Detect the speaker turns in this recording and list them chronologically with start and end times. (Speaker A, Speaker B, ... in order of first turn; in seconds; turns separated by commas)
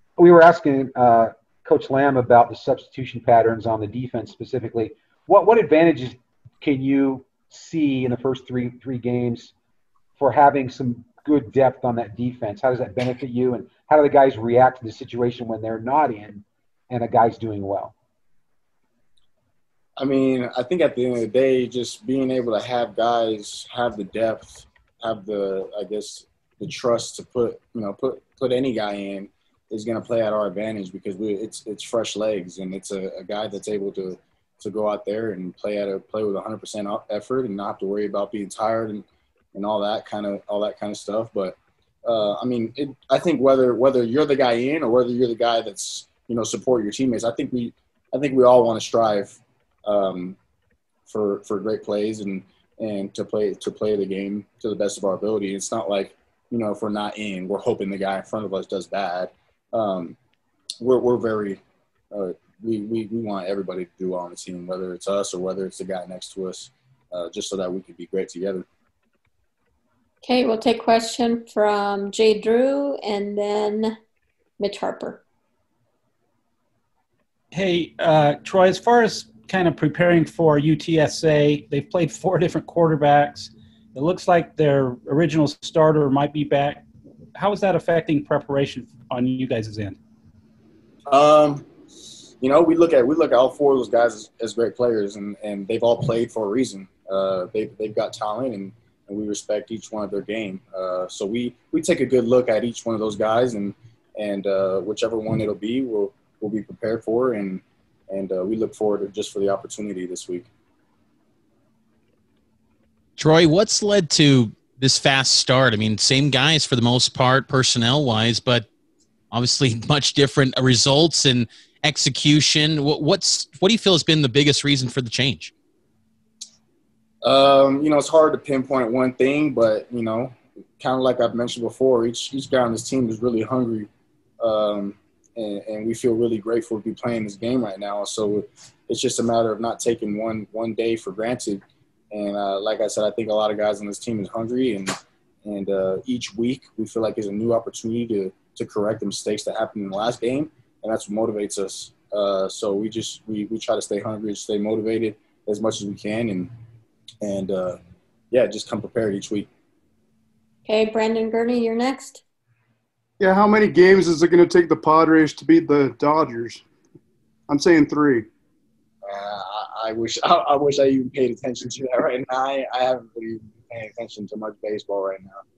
Speaker A: 0.2-9.5, Speaker A: 10.2-17.9, Speaker B: 20.0-50.4, Speaker B: 51.1-60.2, Speaker B: 60.8-61.6, Speaker B: 62.1-68.7, Speaker C: 70.2-74.0, Speaker C: 74.6-75.2, Speaker D: 77.5-90.0, Speaker B: 91.1-91.7, Speaker B: 92.4-110.5, Speaker E: 113.2-118.7, Speaker E: 119.3-125.5, Speaker B: 127.2-156.5, Speaker B: 157.2-157.8, Speaker B: 158.3-159.5, Speaker C: 160.7-162.2, Speaker F: 163.2-166.6, Speaker F: 167.5-168.3, Speaker B: 169.0-175.4